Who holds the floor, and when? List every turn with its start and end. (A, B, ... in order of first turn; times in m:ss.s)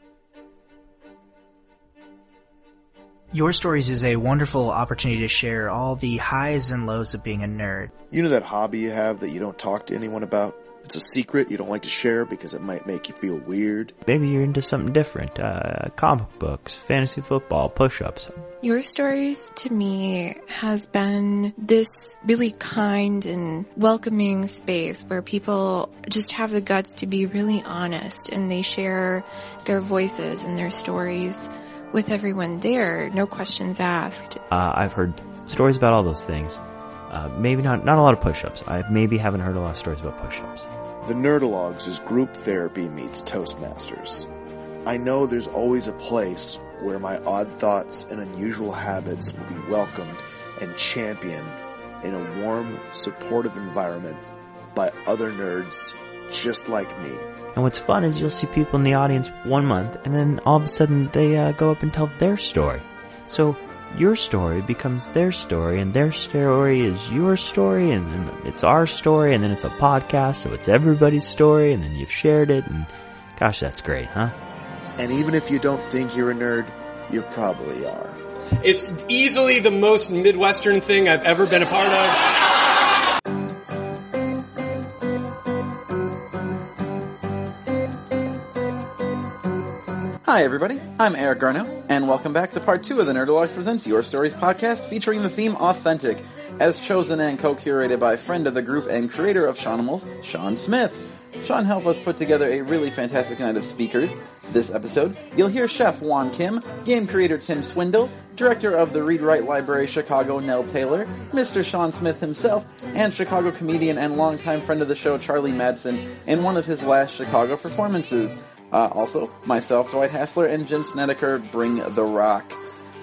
0:03.3-0:07.9 A
0:08.1-0:14.0 B
0:14.1-0:18.5 C
0:18.6-0:34.4 D
0:34.5-0:40.7 C
0:41.0-0:44.3 B
0:44.8-0:54.2 B
0:54.7-0:57.3 B
0:57.5-1:14.3 C
1:15.0-1:18.2 B
1:18.6-1:22.2 E
1:30.2-2:02.6 F